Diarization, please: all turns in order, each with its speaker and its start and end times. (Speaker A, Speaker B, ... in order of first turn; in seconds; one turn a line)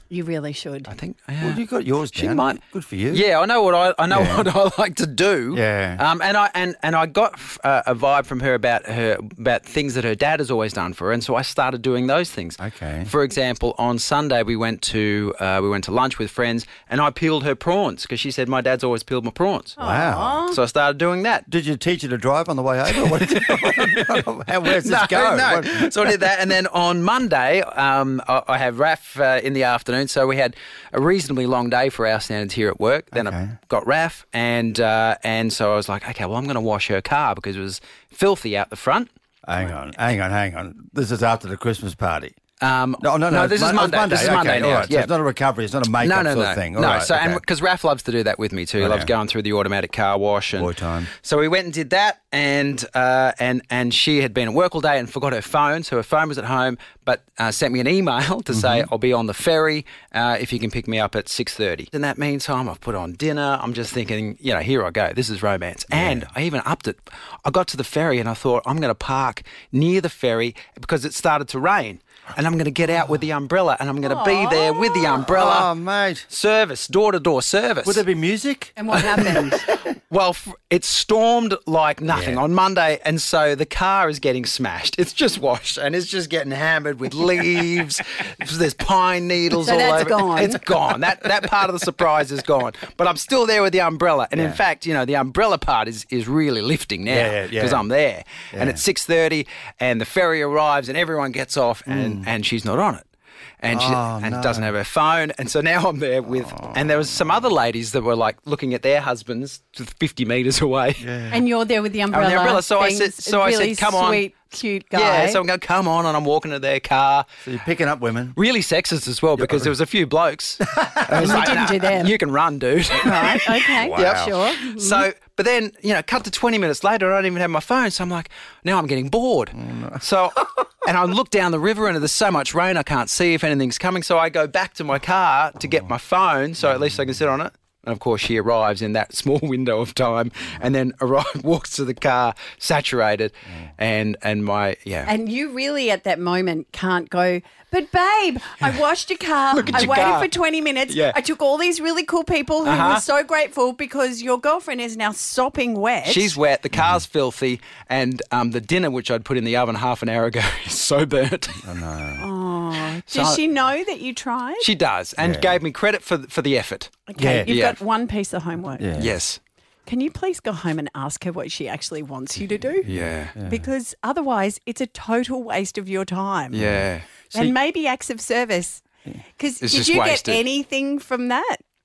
Speaker A: 0.1-0.9
Speaker B: 0.9-1.6
Speaker C: 1.4-3.3
Speaker B: 2.1-19.8
Speaker C: 4.1-4.5
Speaker C: 5.5-6.0
Speaker C: 12.6-13.1
Speaker A: 19.8-20.6
Speaker C: 19.8-20.4
Speaker B: 20.5-21.4
Speaker C: 21.5-26.2
Speaker B: 22.9-39.1
Speaker C: 33.1-33.6
Speaker C: 39.5-42.4
Speaker B: 42.6-45.1
Speaker C: 43.0-47.4
Speaker B: 46.0-75.7
Speaker C: 48.8-49.1
Speaker C: 50.6-51.1
Speaker C: 58.5-58.9
Speaker C: 65.9-66.3
Speaker A: 74.0-75.2
Speaker C: 75.2-76.3
Speaker B: 76.3-78.0
Speaker C: 77.8-79.6
Speaker A: 78.8-79.7
Speaker B: 80.1-103.0
Speaker C: 82.1-82.4
Speaker A: 89.6-90.6
Speaker C: 94.3-94.6
Speaker C: 97.1-97.8
Speaker C: 98.5-98.8
Speaker C: 101.9-102.3
Speaker B: 103.6-111.0
Speaker C: 103.7-104.7
Speaker C: 106.4-107.2
Speaker C: 111.0-111.5
Speaker A: 111.3-115.4
Speaker B: 112.1-114.2
Speaker B: 114.9-117.3
Speaker C: 117.5-118.4
Speaker B: 118.4-145.1
Speaker C: 119.4-119.7
Speaker C: 120.6-121.3
Speaker A: 121.2-122.2
Speaker A: 123.0-125.1
Speaker C: 123.7-124.4
Speaker C: 129.6-130.0
Speaker A: 145.1-156.4
Speaker B: 149.6-150.3
Speaker B: 150.9-151.2
Speaker B: 152.6-153.0
Speaker B: 156.1-161.7
Speaker C: 156.7-157.0
Speaker C: 161.6-162.3
Speaker A: 162.2-164.7
Speaker B: 163.1-163.4
Speaker B: 164.6-167.8
Speaker C: 165.2-165.6
Speaker A: 167.1-168.9
Speaker C: 167.2-167.5
Speaker C: 168.8-169.2
Speaker B: 169.0-169.4
Speaker A: 169.9-176.6
Speaker C: 172.8-173.7
Speaker B: 172.9-173.3
Speaker C: 176.5-177.6
Speaker B: 176.5-177.1
Speaker A: 177.3-178.8
Speaker A: 179.4-181.6
Speaker B: 179.6-180.4